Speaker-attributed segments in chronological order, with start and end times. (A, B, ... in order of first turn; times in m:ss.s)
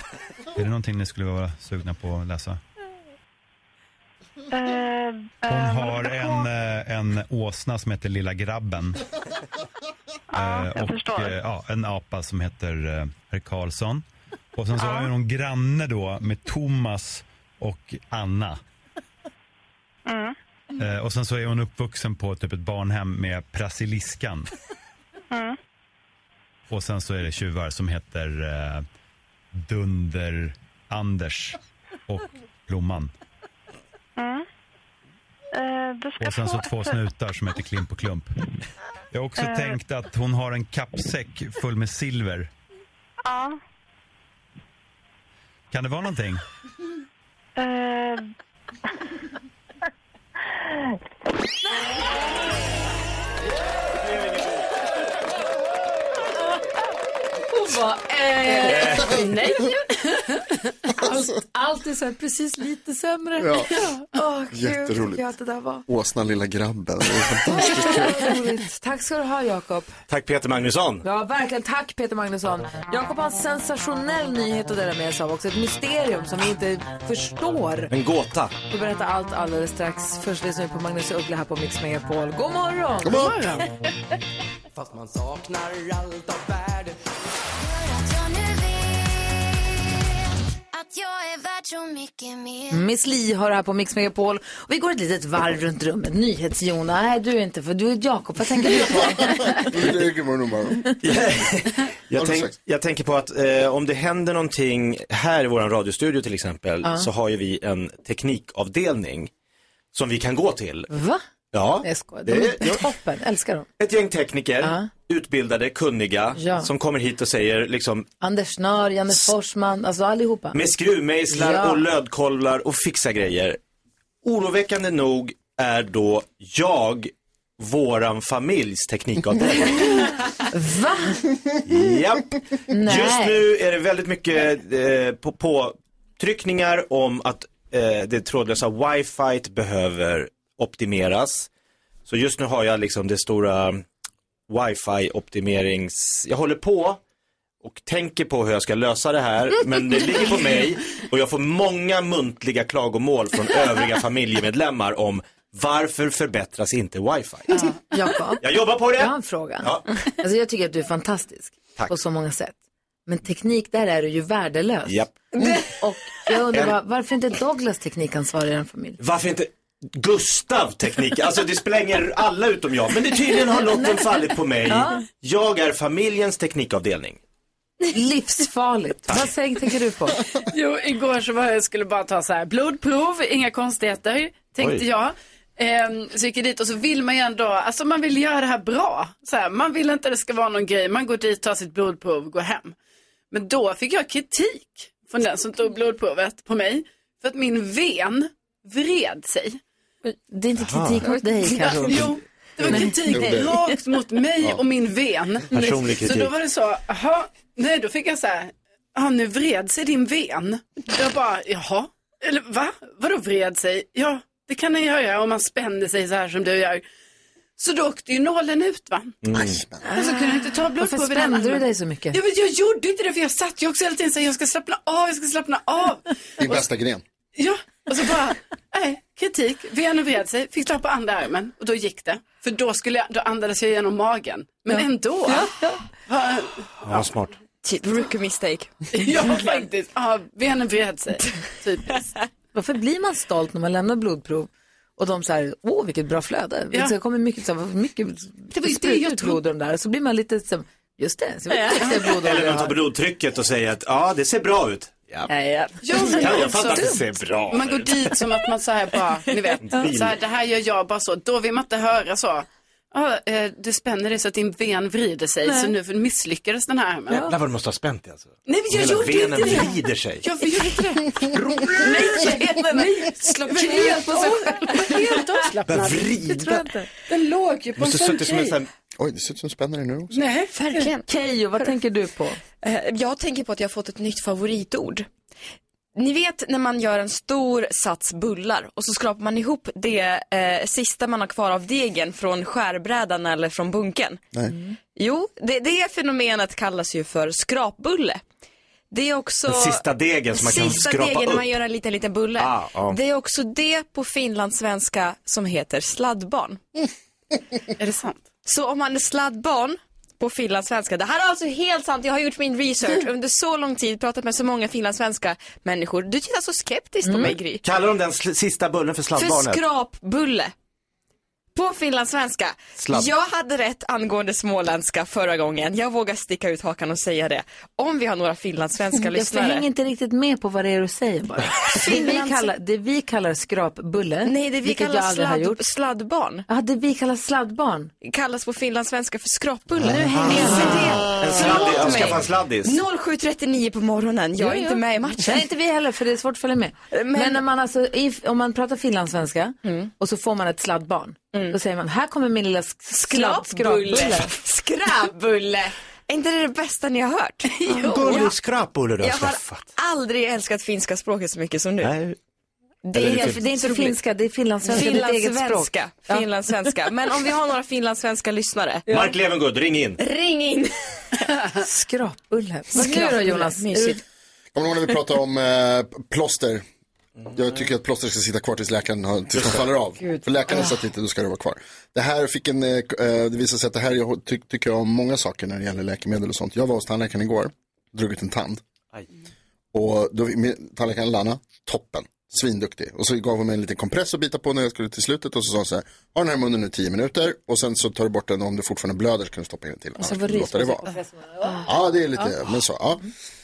0:00.6-0:02.6 A
0:04.5-0:06.4 B
0:05.5-0:09.0 A
0:10.3-0:11.3 B
0:10.4-0:18.6 A
0:14.8-0:15.1 B
0:20.1-0:20.4 B
0:20.8-0:24.5 A
0:25.3-0:25.6 B
0:26.7-0:28.9 A
0:29.5-0:33.1 A
0:34.2-0:34.4 B
0:35.6-0:37.0 B
0:36.2-0:38.3 A
0:39.1-0:42.5 A
0:39.4-0:39.8 B
0:43.2-0:43.6 B
0:45.7-0:46.4 A
0:47.6-0:48.2 B
0:57.5-0:59.7 C
0:58.6-0:59.9 D
0:58.7-0:59.1 E
1:01.0-1:05.8 C
1:03.4-1:03.7 F
1:04.5-1:05.2 F
1:05.9-1:08.3 F
1:07.5-1:10.0 C
1:10.1-1:11.0 E
1:11.0-1:17.9 C
1:17.9-1:18.5 E
1:18.7-1:23.6 C
1:23.0-1:23.3 F
1:23.1-1:23.7 D
1:24.8-1:26.9 G
1:27.6-1:29.5 H
1:30.7-1:32.8 H
1:32.7-1:39.7 C
1:38.7-1:40.9 F
1:41.0-1:49.3 E
1:42.2-1:42.5 F
1:49.9-1:50.9 E
1:50.9-1:51.2 C
1:51.5-1:52.9 E
1:51.8-1:53.7 C
1:53.8-1:58.1 E
1:54.6-1:54.9 C
1:56.4-1:56.7 C
1:58.2-2:00.6 C
2:00.5-2:03.6 E
2:01.3-2:01.8 C
2:04.2-2:10.1 E
2:10.5-2:11.2 C
2:11.6-2:21.5 E
2:12.7-2:13.4 C
2:22.1-2:23.8 E
2:24.5-2:27.0 E
2:27.6-2:37.7 E
2:37.9-2:42.6 C
2:38.4-2:39.8 E
2:43.1-2:49.0 C
2:44.9-2:45.1 E
2:45.3-2:45.6 I
2:49.0-2:57.2 E
2:53.7-2:54.0 C
2:54.7-2:55.0 C
2:57.9-3:00.2 C
3:00.5-3:12.8 D
3:04.6-3:04.8 E
3:13.3-3:19.6 D
3:20.1-3:23.8 C
3:20.6-3:21.1 E
3:21.5-3:36.8 D
3:23.1-3:23.5 F
3:25.5-3:26.3 E
3:37.6-3:39.2 D
3:39.2-3:39.6 E
3:39.3-3:39.8 F
3:39.8-3:42.2 C
3:39.9-3:46.7 D
3:46.4-3:47.0 F
3:47.4-3:55.5 D
3:54.7-3:55.8 C
3:56.1-3:57.1 D
3:56.8-3:57.3 E
3:57.6-3:58.7 I
3:58.9-4:02.0 D
4:02.5-4:12.8 C
4:08.5-4:09.4 D
4:12.0-4:15.3 E
4:15.3-4:17.0 C
4:15.8-4:17.0 D
4:16.0-4:18.2 E
4:17.5-4:27.3 D
4:19.6-4:20.2 E
4:25.4-4:25.7 C
4:27.1-4:30.2 E
4:28.5-4:32.9 D
4:31.3-4:31.9 E
4:31.8-4:35.3 C
4:33.4-4:36.2 D
4:35.7-4:36.7 E
4:36.1-4:36.9 C
4:37.1-4:38.6 D
4:37.8-4:38.7 E
4:39.0-4:40.1 F
4:40.1-4:40.9 D
4:40.5-4:41.0 I
4:41.0-4:42.4 C
4:42.6-4:45.1 I
4:46.0-4:54.2 I
4:54.9-4:58.2 I
4:58.9-5:06.6 I
4:59.5-5:01.6 E
5:02.4-5:03.0 E
5:07.8-5:08.2 D
5:08.4-5:17.6 I
5:17.0-5:17.4 C
5:17.2-5:19.6 E
5:19.2-5:20.5 I
5:21.6-5:29.7 I
5:22.8-5:23.1 E
5:29.0-5:35.6 C
5:31.6-5:32.5 I
5:34.2-5:36.5 I
5:36.5-5:37.9 C
5:38.0-5:45.4 I
5:39.8-5:42.2 C
5:39.9-5:42.8 E
5:44.4-5:54.3 C
5:46.9-5:47.4 I
5:49.6-5:49.9 I
5:51.3-5:51.6 I
5:52.9-5:58.3 I
5:57.8-5:59.7 E
5:59.0-6:01.9 I
6:01.8-6:02.2 E
6:02.8-6:04.0 I
6:02.9-6:03.4 E
6:03.0-6:06.8 C
6:04.6-6:08.9 I
6:08.9-6:09.1 C
6:08.9-6:10.0 E
6:10.0-6:11.3 I
6:11.6-6:14.0 C
6:12.7-6:14.0 I
6:14.5-6:16.6 F
6:17.3-6:28.6 F
6:19.3-6:19.7 E
6:20.0-6:20.8 C
6:29.7-6:40.9 F
6:40.0-6:42.4 C
6:41.6-6:43.0 F